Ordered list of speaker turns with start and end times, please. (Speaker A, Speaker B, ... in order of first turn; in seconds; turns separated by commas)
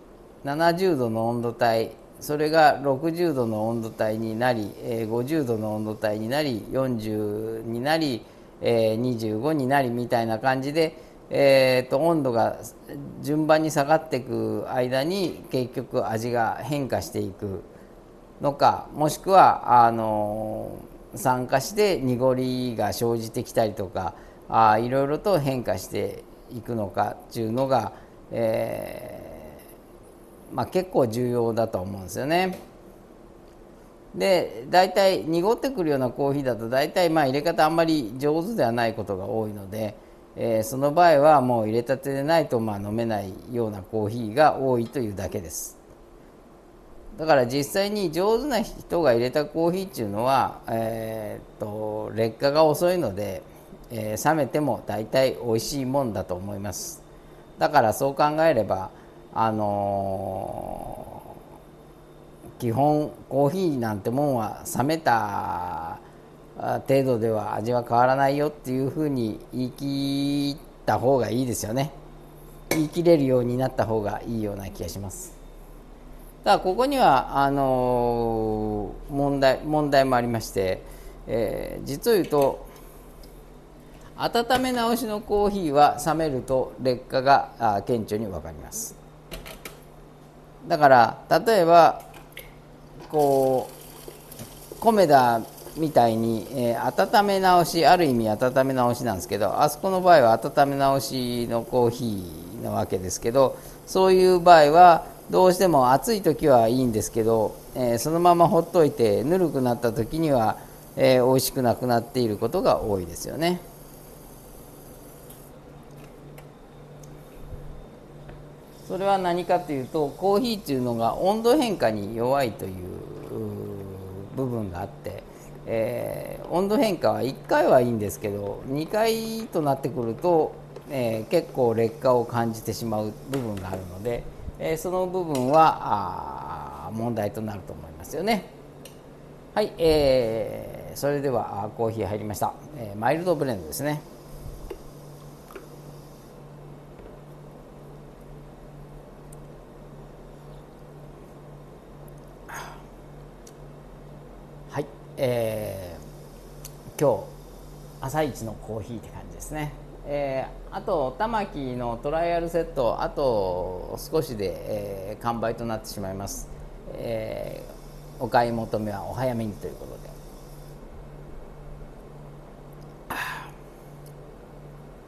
Speaker A: 0.4-17.7, Speaker A: 18.4-29.6, Speaker A: 30.5-32.6, Speaker A: 34.1-45.8, Speaker A: 47.1-57.0, Speaker A: 57.6-61.3, Speaker A: 62.6-66.0, Speaker A: 66.5-71.9, Speaker A: 72.7-75.3, Speaker A: 76.4-82.7, Speaker A: 84.2-89.0, Speaker A: 90.6-92.0, Speaker A: 93.1-93.7, Speaker A: 94.8-113.6, Speaker A: 118.8-138.5, Speaker A: 139.5-144.0, Speaker A: 154.7-156.0, Speaker A: 156.9-157.3, Speaker A: 158.0-170.2